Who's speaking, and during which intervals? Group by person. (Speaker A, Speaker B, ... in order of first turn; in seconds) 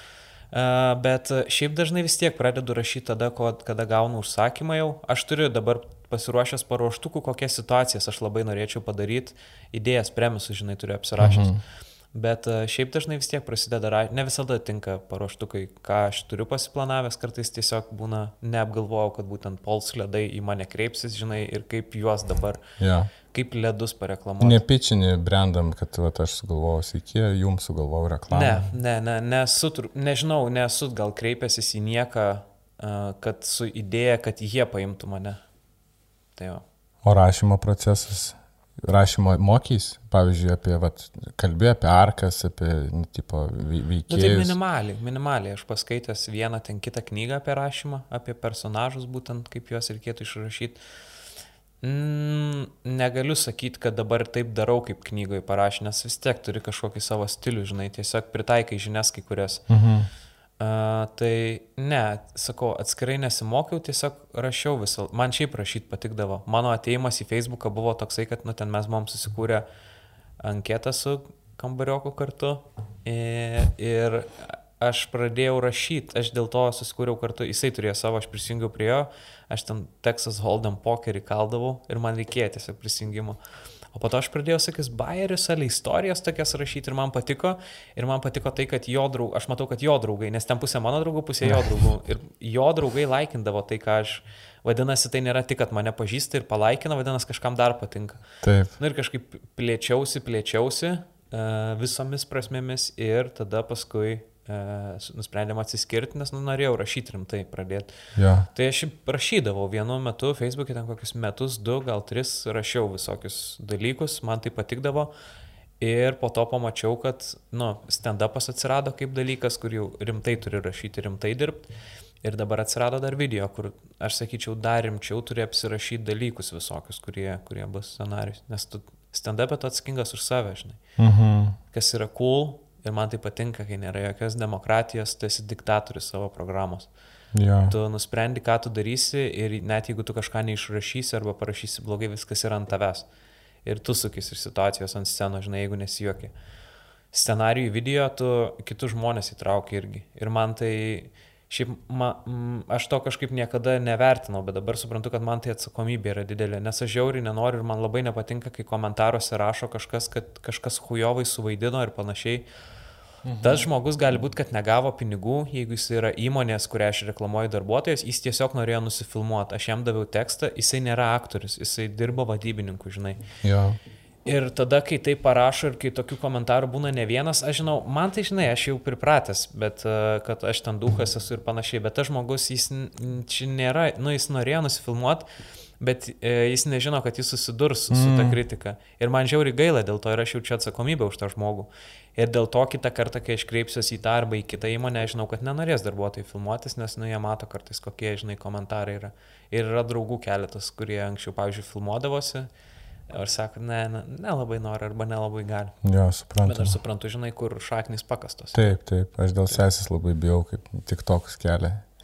Speaker A: 0.5-11.5, 12.1-22.6, 23.3-24.6, 28.3-35.4, 36.4-36.6, 44.1-50.8, 51.8-59.6, 60.6-69.6, 70.4-83.4, 83.9-98.2, 98.8-107.9, 108.5-115.1, 115.8-121.7, 122.2-130.8, 131.7-136.9, 137.7-143.1, 143.6-146.3, 147.1-162.4, 163.4-173.2, 174.2-185.2, 185.8-202.5, 203.1-205.8, 206.4-208.6
Speaker B: 11.2-11.6, 22.8-23.1, 24.4-28.7, 37.0-44.5, 59.7-60.1, 98.4-98.7, 108.2-108.5, 131.0-131.6, 137.3-137.7, 163.2-163.7, 173.4-173.8, 187.9-188.4, 205.8-206.8, 208.5-211.8